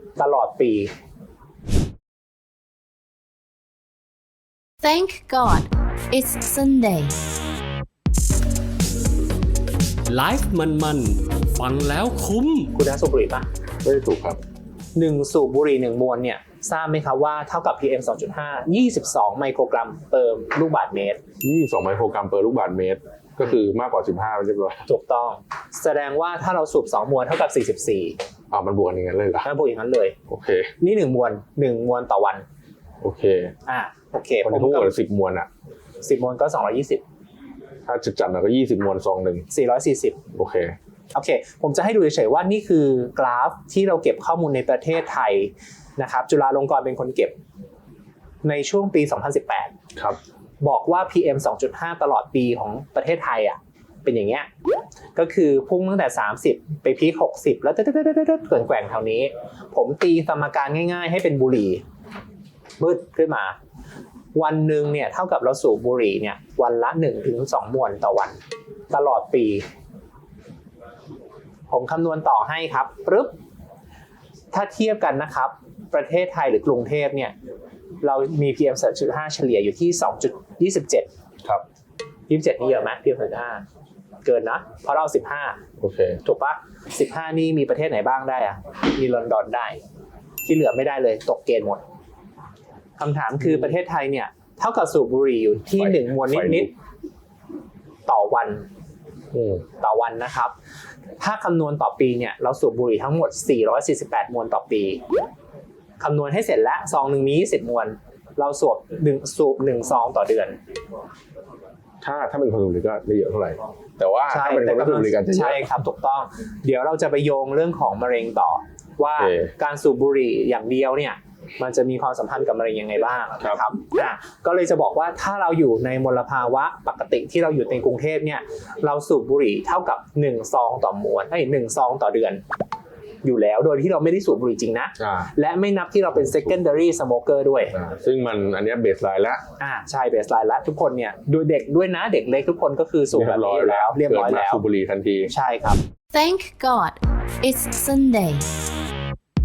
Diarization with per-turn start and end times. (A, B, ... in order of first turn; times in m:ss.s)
0:00.2-0:00.9 A
0:04.8-0:07.2 B
0:10.1-0:12.7 C
0:12.7-0:13.5 A
0:13.8-0:14.4 D
0:15.0-0:21.2 A
0:21.4-0:24.9 D
0:24.9-0:28.2 A
0:28.5-0:29.5 D
0:29.4-0:30.2 A
0:30.3-0:30.7 D
0:30.8-0:32.4 A
0:33.0-0:33.5 D
0:33.7-0:34.9 A
0:34.4-0:35.5 D
0:36.0-0:37.0 A
0:37.9-0:39.5 D
0:39.5-0:40.2 A
0:40.3-0:40.8 D
0:41.1-0:47.4 A
0:48.4-0:49.7 A
0:50.6-0:54.5 A
0:55.2-1:01.8 A
1:02.8-1:03.6 A
1:04.3-1:08.4 A
1:08.9-1:09.7 A
1:11.7-1:13.3 A
1:14.5-1:17.4 A
1:18.0-1:21.1 A
1:22.3-1:23.6 A
1:24.2-1:25.6 A
1:25.8-1:26.2 D
1:26.2-1:29.8 A
1:30.5-1:31.8 A
1:33.0-1:36.7 A
1:35.8-1:36.7 D
1:38.1-1:38.7 A
1:39.3-1:39.6 D
1:39.8-1:40.5 A
1:41.2-1:45.0 A
1:46.0-1:50.6 A
1:52.0-1:55.7 D
1:54.3-2:12.4 A
1:59.2-1:59.5 D
2:13.2-2:17.8 A
2:15.0-2:15.3 D
2:17.7-2:19.4 D
2:19.6-2:24.6 A
2:23.1-2:25.3 D
2:25.3-2:25.8 A
2:26.1-2:28.5 B